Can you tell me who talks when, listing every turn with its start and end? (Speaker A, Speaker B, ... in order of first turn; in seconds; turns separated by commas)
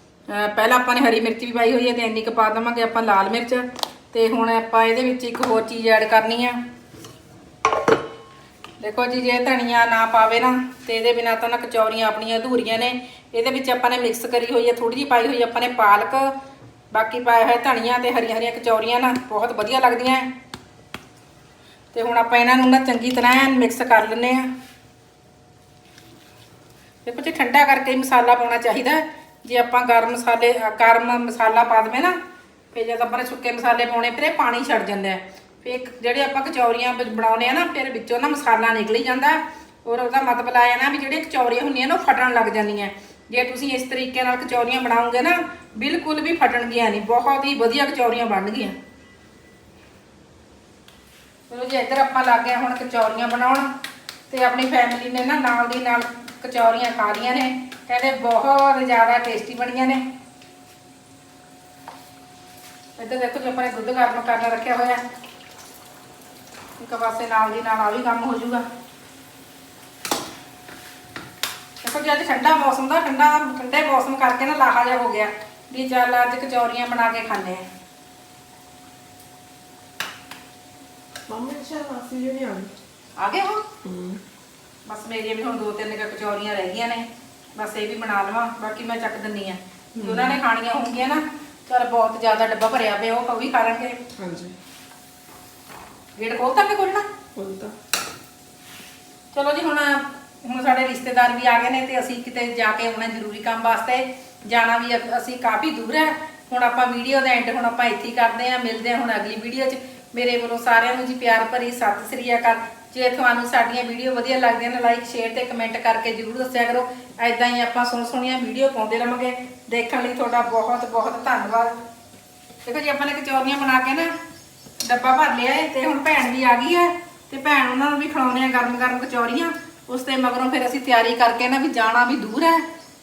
Speaker A: 0.3-6.6, Speaker A: 8.8-16.3, Speaker A: 16.9-20.3, Speaker A: 21.9-24.5, Speaker A: 27.0-32.1, Speaker A: 32.7-48.8, Speaker A: 51.5-53.7, Speaker A: 54.3-60.0, Speaker A: 63.0-65.0, Speaker A: 66.8-68.6, Speaker A: 71.8-77.6, Speaker B: 81.3-82.7, Speaker A: 83.2-83.6, Speaker B: 83.8-84.2, Speaker A: 84.9-94.0, Speaker B: 90.0-90.3, Speaker B: 94.2-94.5, Speaker A: 96.2-97.0, Speaker B: 97.3-97.7, Speaker A: 99.3-121.8, Speaker A: 122.6-124.1, Speaker A: 124.8-132.6